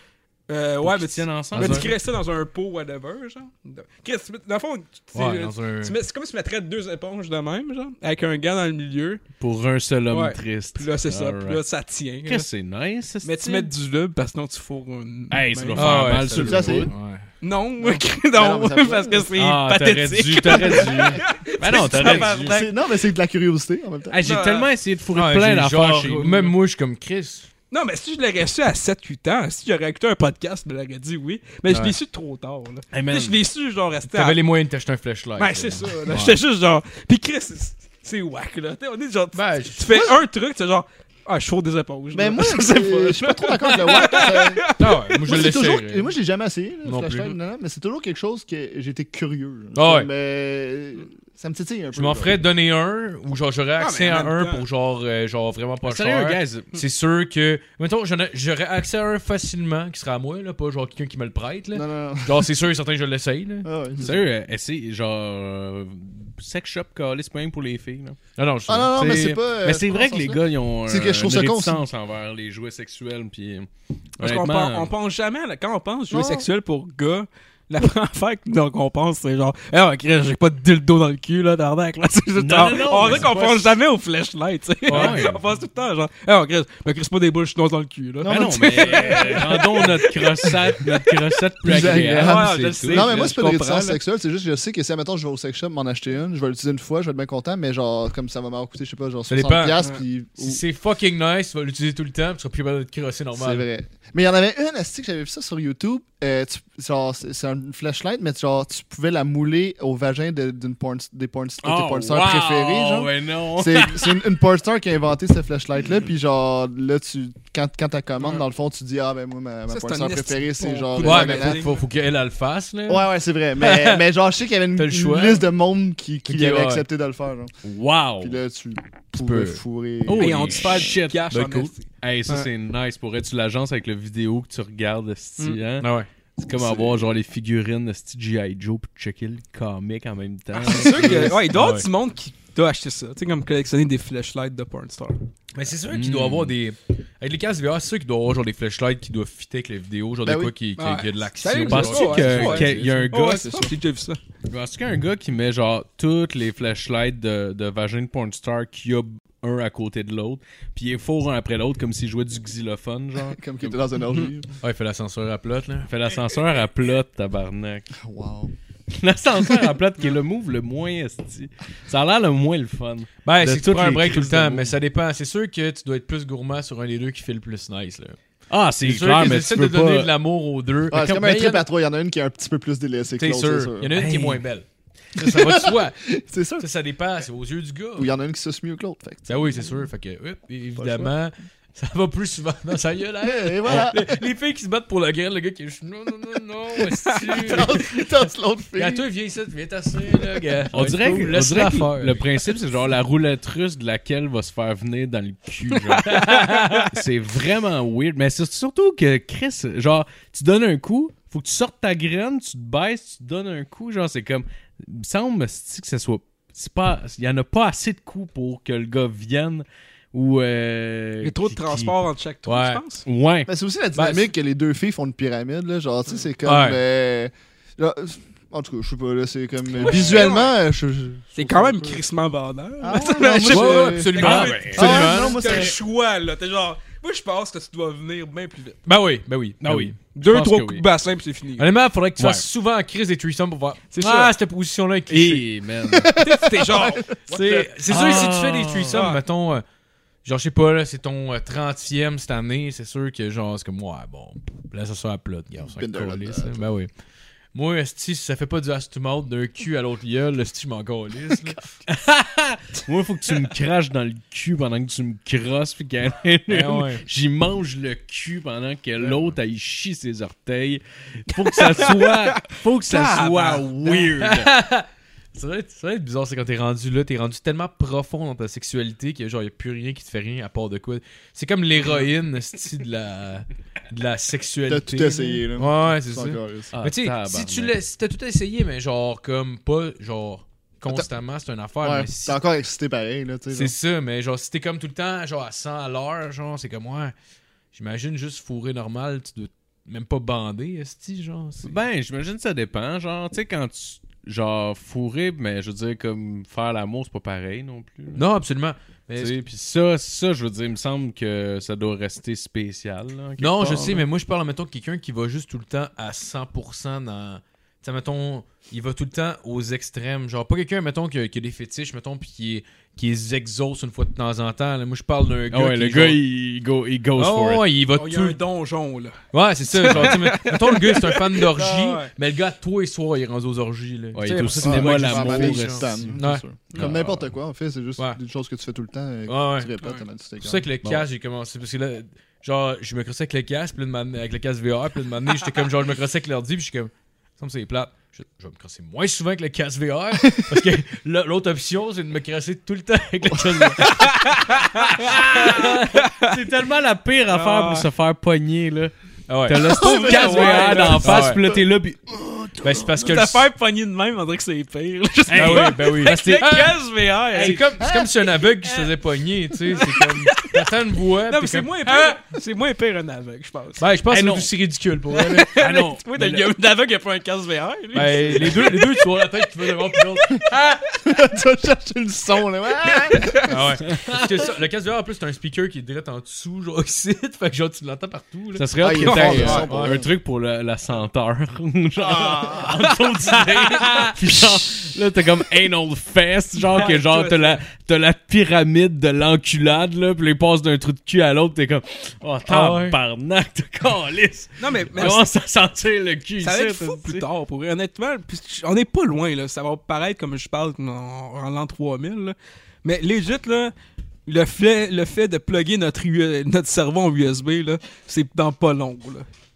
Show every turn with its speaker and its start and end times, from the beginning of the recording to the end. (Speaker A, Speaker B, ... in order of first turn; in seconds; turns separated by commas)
Speaker A: 0.5-9.2, Speaker B: 0.8-1.9, Speaker C: 1.6-1.8, Speaker C: 5.1-5.9, Speaker B: 9.4-11.6, Speaker A: 10.1-12.5, Speaker B: 12.2-13.7, Speaker A: 13.2-16.1, Speaker B: 15.3-16.9, Speaker C: 15.7-17.2, Speaker D: 16.3-16.9, Speaker A: 17.4-22.7, Speaker D: 17.8-19.3, Speaker B: 19.4-22.7, Speaker D: 21.9-24.2, Speaker B: 24.1-26.6, Speaker A: 24.2-24.7, Speaker C: 25.1-27.5, Speaker A: 27.7-34.4, Speaker C: 31.7-31.9, Speaker B: 32.9-33.4, Speaker C: 34.1-36.4, Speaker A: 35.4-45.2, Speaker C: 39.3-40.0, Speaker D: 42.1-44.7, Speaker C: 44.8-46.1, Speaker D: 45.2-52.4, Speaker C: 46.8-47.4, Speaker C: 49.7-50.1, Speaker C: 51.9-63.7, Speaker A: 53.8-54.6, Speaker B: 55.8-56.8, Speaker D: 61.7-62.5, Speaker D: 63.6-64.2, Speaker B: 64.0-68.2, Speaker C: 68.4-68.9, Speaker D: 68.7-71.8, Speaker B: 68.9-74.9, Speaker A: 74.2-91.1, Speaker D: 76.1-76.5, Speaker B: 82.4-83.7, Speaker C: 84.9-85.2, Speaker B: 84.9-85.5, Speaker D: 88.2-89.8, Speaker B: 88.3-92.5, Speaker D: 91.6-100.6, Speaker C: 91.7-93.2, Speaker A: 92.0-94.0, Speaker C: 99.3-103.6, Speaker D: 103.4-121.7, Speaker B: 111.6-114.4, Speaker A: 119.7-121.8, Speaker C: 121.0-124.0, Speaker D: 122.9-127.5, Speaker C: 124.8-125.5, Speaker C: 126.2-126.8, Speaker B: 127.6-128.4, Speaker D: 128.2-130.9, Speaker C: 129.1-129.6, Speaker B: 130.1-131.3, Speaker A: 130.2-132.5, Speaker C: 131.3-131.7, Speaker B: 132.0-141.5, Speaker C: 135.8-136.1, Speaker D: 136.5-137.1, Speaker A: 140.6-145.2, Speaker C: 141.0-141.9, Speaker C: 145.5-153.1, Speaker B: 145.9-146.5, Speaker D: 150.2-150.5, Speaker A: 150.8-154.2, Speaker B: 151.6-153.5, Speaker D: 153.2-153.7, Speaker B: 154.5-163.8, Speaker D: 163.3-164.5, Speaker C: 164.6-165.9, Speaker B: 165.9-167.9, Speaker D: 168.0-168.5, Speaker B: 168.9-174.7, Speaker C: 173.2-178.2, Speaker B: 178.5-180.1, Speaker C: 178.8-181.7, Speaker D: 180.9-183.9, Speaker C: 183.2-186.0, Speaker B: 183.9-184.4, Speaker D: 185.2-186.7, Speaker C: 186.6-188.1, Speaker D: 187.9-189.7, Speaker C: 189.3-197.8, Speaker D: 190.8-191.1, Speaker D: 193.2-194.2, Speaker B: 193.6-193.9, Speaker A: 197.1-197.5, Speaker D: 197.4-199.0, Speaker C: 198.8-202.3, Speaker B: 200.7-221.9, Speaker A: 205.8-206.9, Speaker C: 206.1-206.9, Speaker A: 221.2-223.1, Speaker C: 222.4-222.8, Speaker B: 223.1-223.5, Speaker D: 223.5-232.0, Speaker C: 223.9-224.3, Speaker C: 226.4-226.8, Speaker A: 229.8-230.6, Speaker C: 229.8-230.2, Speaker A: 231.3-238.8, Speaker D: 232.8-235.8, Speaker C: 233.4-235.7, Speaker B: 234.1-235.7, Speaker C: 238.9-239.9, Speaker B: 239.6-240.8, Speaker A: 240.1-241.7, Speaker C: 241.6-245.5, Speaker B: 242.2-242.4, Speaker A: 243.9-244.3, Speaker B: 245.1-246.2, Speaker D: 245.9-247.6, Speaker A: 246.2-248.3, Speaker C: 247.3-249.6, Speaker B: 247.5-249.1, Speaker A: 248.9-249.2, Speaker C: 250.2-256.9, Speaker D: 255.7-256.6, Speaker C: 257.5-261.7, Speaker B: 261.9-274.5, Speaker C: 266.5-267.0, Speaker A: 271.5-273.8, Speaker C: 273.9-292.4, Speaker D: 284.7-286.7, Speaker B: 286.7-287.7, Speaker D: 291.8-293.7, Speaker C: 293.5-297.1, Speaker C: 297.7-301.8, Speaker B: 301.6-308.3, Speaker C: 308.1-309.4, Speaker B: 309.2-314.1, Speaker C: 313.4-326.2, Speaker B: 325.5-327.6, Speaker C: 327.1-328.4, Speaker A: 327.9-332.1, Speaker C: 329.3-337.3, Speaker B: 334.1-336.2, Speaker D: 334.6-340.7, Speaker C: 339.3-339.7, Speaker C: 340.4-354.1, Speaker A: 353.8-356.4, Speaker C: 355.0-355.8, Speaker B: 355.1-358.9, Speaker A: 357.3-357.9, Speaker C: 359.3-360.1, Speaker B: 359.4-362.1, Speaker D: 359.6-363.2, Speaker A: 359.7-361.2, Speaker C: 361.0-361.4, Speaker C: 362.6-363.4, Speaker A: 363.0-367.7, Speaker B: 365.3-367.7, Speaker C: 365.3-366.8, Speaker C: 367.4-372.2, Speaker D: 367.8-368.1, Speaker A: 369.7-370.6, Speaker A: 371.2-373.9, Speaker C: 373.8-375.6, Speaker B: 374.1-374.5, Speaker A: 375.1-378.9, Speaker B: 375.6-376.5, Speaker C: 377.9-381.0, Speaker D: 381.0-383.5, Speaker C: 383.4-390.1, Speaker B: 388.6-407.2, Speaker D: 388.8-390.1, Speaker A: 389.0-389.6, Speaker D: 392.1-392.7, Speaker A: 392.4-392.6, Speaker C: 393.4-394.1, Speaker A: 396.7-397.6, Speaker C: 402.5-403.0, Speaker A: 404.6-405.2, Speaker A: 406.4-413.7, Speaker A: 414.2-419.3